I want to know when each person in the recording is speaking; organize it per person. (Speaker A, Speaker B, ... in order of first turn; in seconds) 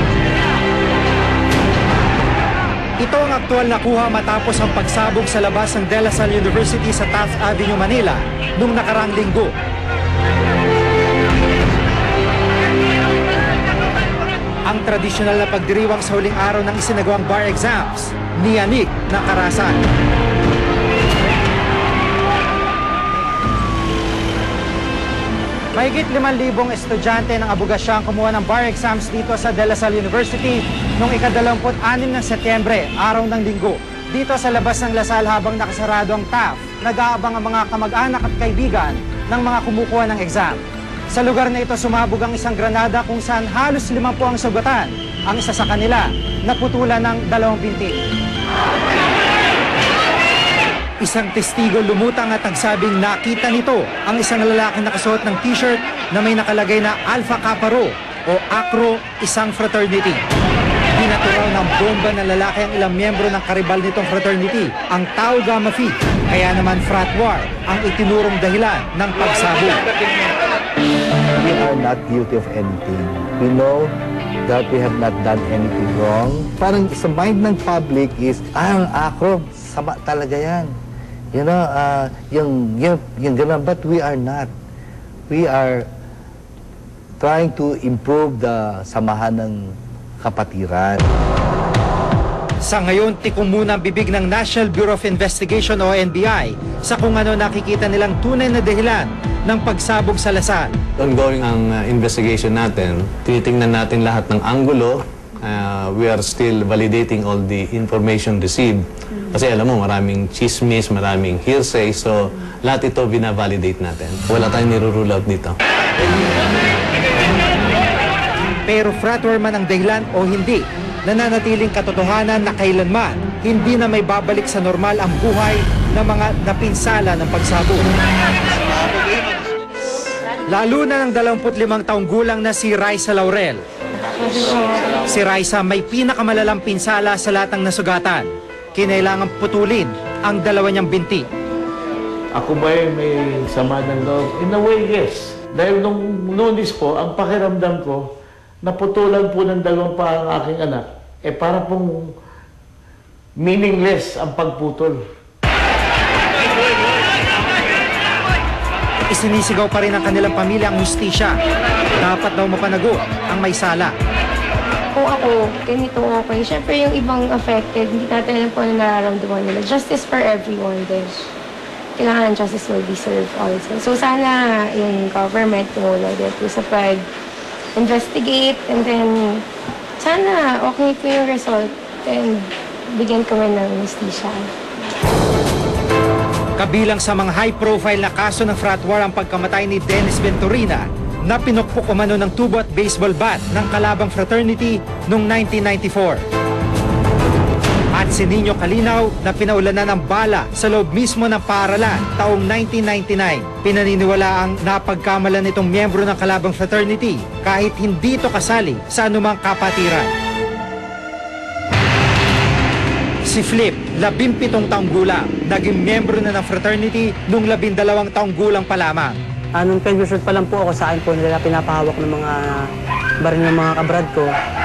Speaker A: 3.0-9.5, 14.7-19.8, 25.8-48.0, 51.0-60.2, 60.9-69.8, 92.6-100.7, 118.7-127.9, 130.5-133.6, 135.1-141.3, 159.1-161.3, 162.0-163.9, 186.6-196.2, 197.9-210.1, 213.3-219.2
Speaker B: 71.4-73.9, 74.5-80.7, 81.3-84.5, 85.3-85.9, 87.2-91.0
Speaker C: 101.0-115.6
Speaker D: 134.2-134.8, 164.9-171.3, 172.0-177.1, 177.8-179.4, 180.0-184.5
Speaker E: 142.3-148.1, 148.6-152.1, 153.4-155.0
Speaker F: 219.6-222.4, 223.2-224.3